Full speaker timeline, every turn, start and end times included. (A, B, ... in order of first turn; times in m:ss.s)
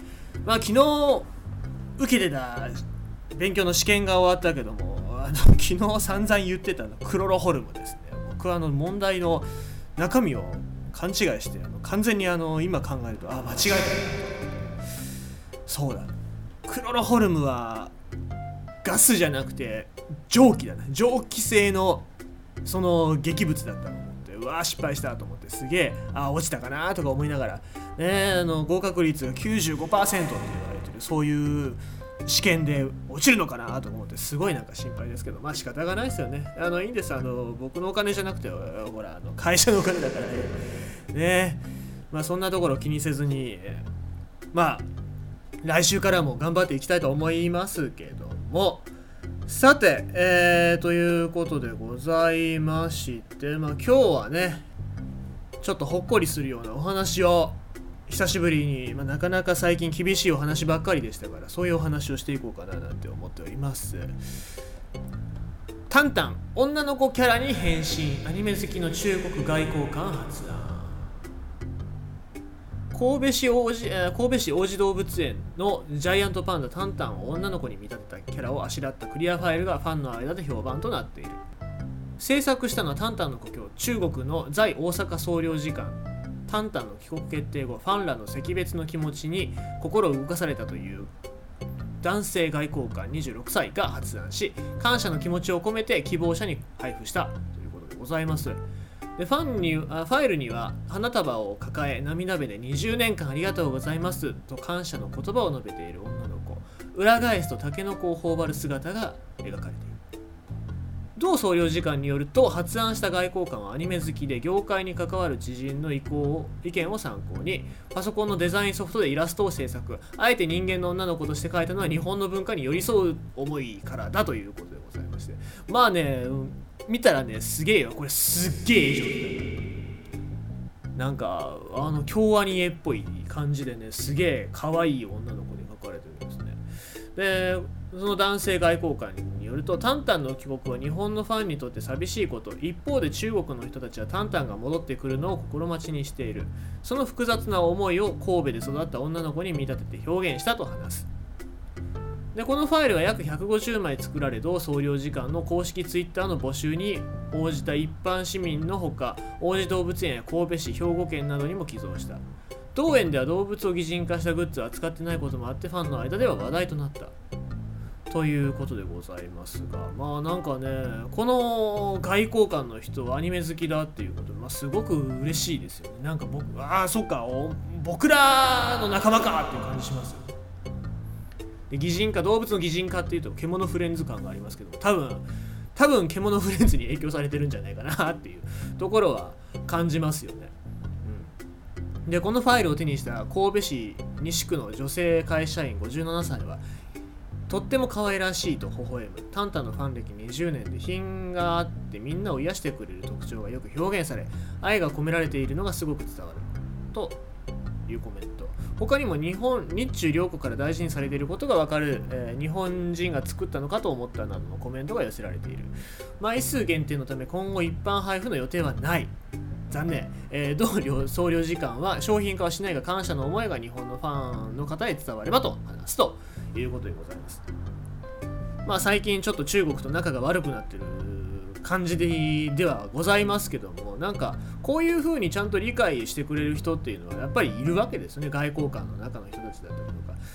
0:00.4-0:01.3 A
0:02.0-0:14.7 A
0:15.7-0:16.1 A
0:16.6-0:17.9 A
0:18.8-0:22.0 A
0:22.6-0:43.9 A
0:44.5-0:44.9 A
0:45.6-0:48.9 A
0:49.5-0:54.7 A
0:55.6-1:04.2 A
1:05.9-1:11.0 A
1:12.9-1:21.4 A
1:22.2-1:31.1 A
1:32.0-1:38.6 A
1:39.2-1:50.0 A
1:51.2-2:09.7 A
2:10.9-2:16.6 A
2:17.1-2:31.1 A
2:32.3-2:42.2 A
2:42.7-2:47.1 A
2:48.1-3:00.3 A
3:01.7-3:10.5 A
3:11.0-3:11.3 A
3:12.1-3:16.6 A
3:17.5-3:27.2 A
3:27.9-3:39.1 A
3:39.7-3:47.4 A
3:48.6-4:00.2 A